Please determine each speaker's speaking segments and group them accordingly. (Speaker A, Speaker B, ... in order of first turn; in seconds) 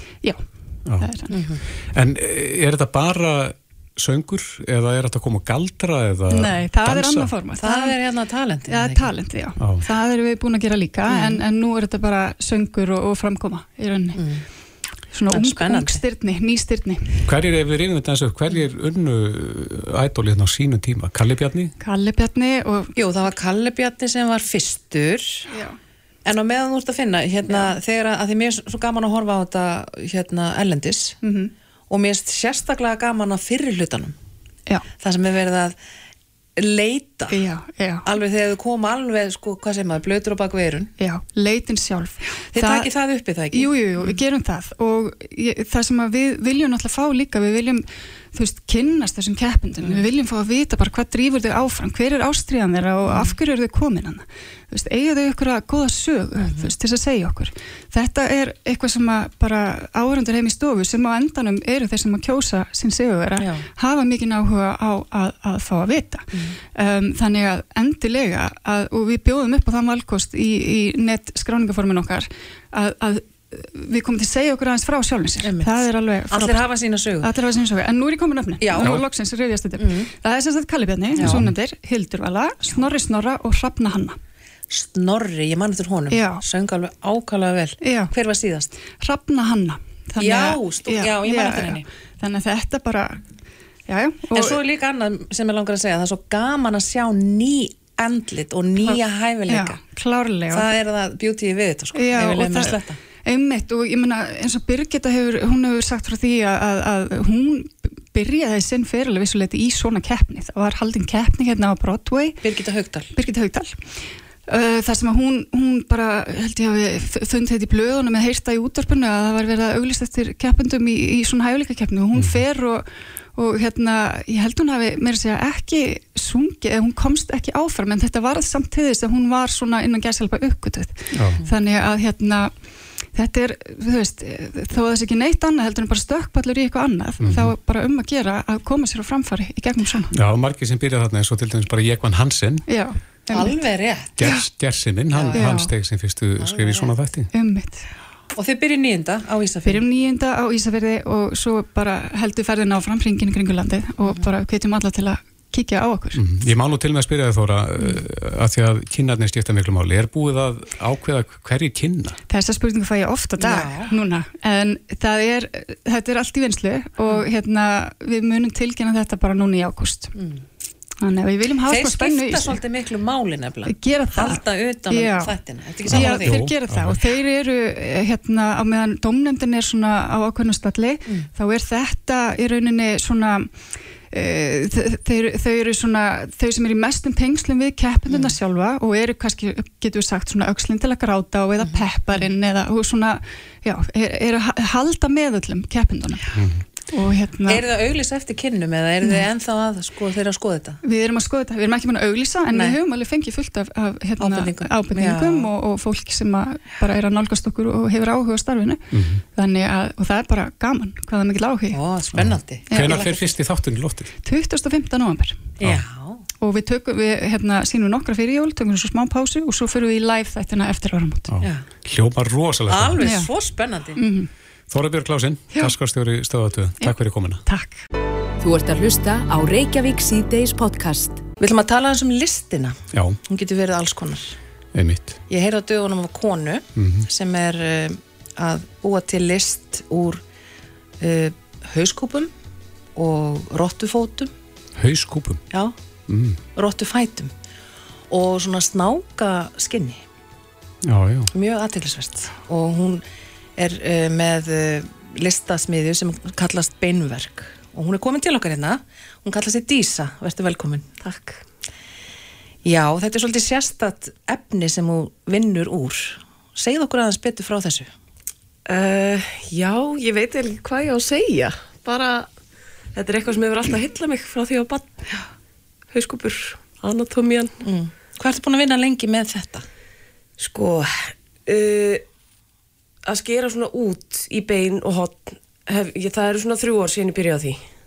Speaker A: 0.8-1.1, 1.8-7.3, 9.6-9.8, 17.2-21.7, 78.8-79.0, 81.2-81.5, 122.1-122.4, 131.1-131.4, 137.2-137.6, 140.1-142.6, 144.2-147.3, 156.1-162.2, 175.9-177.0, 196.3-196.6, 208.9-209.2, 212.1-214.1, 221.3-223.1, 224.7-227.4, 232.9-233.2, 234.7-235.2, 236.8-237.1, 244.8-245.4, 246.1-246.4, 250.8-251.3
Speaker B: 1.0-1.3, 6.3-8.0, 8.7-14.2, 15.1-17.3, 21.8-22.9, 25.5-25.8, 27.5-27.7, 31.2-31.5, 37.3-38.0, 41.0-42.9, 43.5-76.6, 77.2-84.2, 86.1-86.4, 87.8-88.1, 89.0-93.2, 93.9-94.6, 98.8-100.7, 101.9-112.4, 113.1-132.5, 133.1-140.1, 142.7-143.6, 144.2-144.5, 145.3-145.7, 147.3-147.9, 149.6-156.2, 162.3-170.2, 171.0-172.6, 173.7-183.6, 184.1-196.3, 196.9-197.6, 200.8-211.8, 212.7-213.2, 214.2-215.5, 216.4-221.3, 223.0-223.3, 223.9-224.3, 226.8-227.8
Speaker C: 1.3-1.6, 7.6-9.1, 11.1-11.4, 14.1-14.4, 15.3-16.0, 22.9-25.5, 26.2-31.2, 31.9-34.1, 35.0-35.8, 36.6-37.5, 38.0-40.9, 42.5-44.2, 53.1-53.3, 56.4-56.7, 63.4-63.6, 66.3-66.6, 75.4-77.3, 78.6-79.0, 79.8-80.1, 81.2-81.5, 84.7-88.7, 90.2-91.8, 94.3-99.8, 100.5-103.0, 112.4-113.1, 143.3-144.2, 145.1-145.6, 146.4-146.9, 148.3-149.8, 154.0-154.3, 163.4-163.9, 170.1-170.4, 171.6-176.4, 188.1-188.3, 191.6-192.2, 197.5-200.8, 202.5-202.8, 204.2-205.5, 211.7-213.3, 215.6-216.2, 221.4-221.7, 222.7-224.0, 231.4-234.3, 235.3-240.2, 241.0-242.3, 242.9-244.3, 246.5-247.3, 248.1-250.0, 251.3-253.0, 253.6-260.9, 262.6-267.9, 277.6-279.6
Speaker D: 228.4-231.2
Speaker E: 261.0-261.4, 268.6-272.3, 272.9-275.0, 275.9-277.6, 280.4-282.0, 283.0-287.7